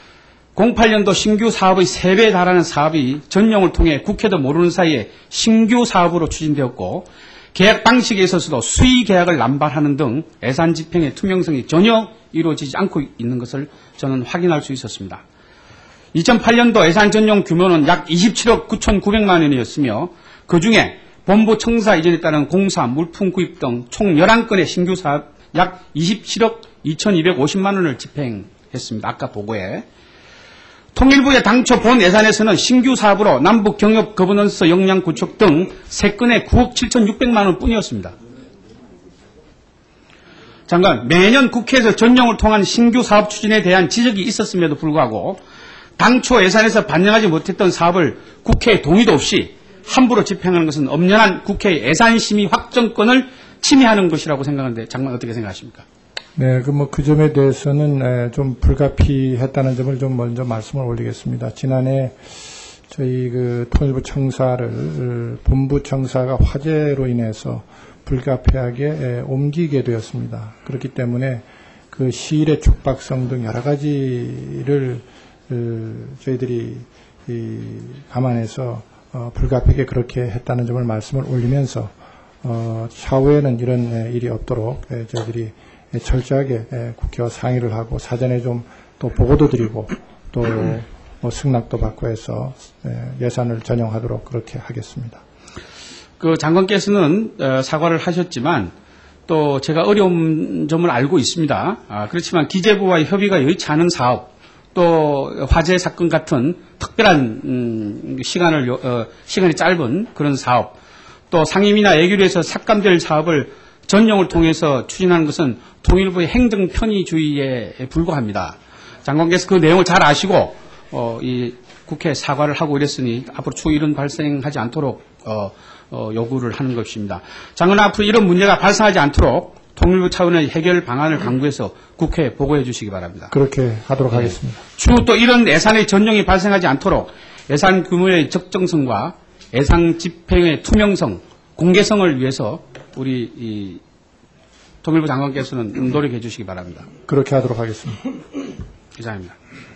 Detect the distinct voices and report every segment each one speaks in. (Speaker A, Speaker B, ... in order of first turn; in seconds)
Speaker A: 0.6-15.2, 16.1-29.9, 30.9-38.1, 40.7-45.4, 46.0-55.9, 96.2-98.7, 99.3-110.8, 111.3-133.3, 134.1-143.8, 144.8-146.9, 149.0-149.4
Speaker B: 56.4-62.4, 62.9-81.9, 82.4-95.2, 133.3-134.6, 147.1-148.0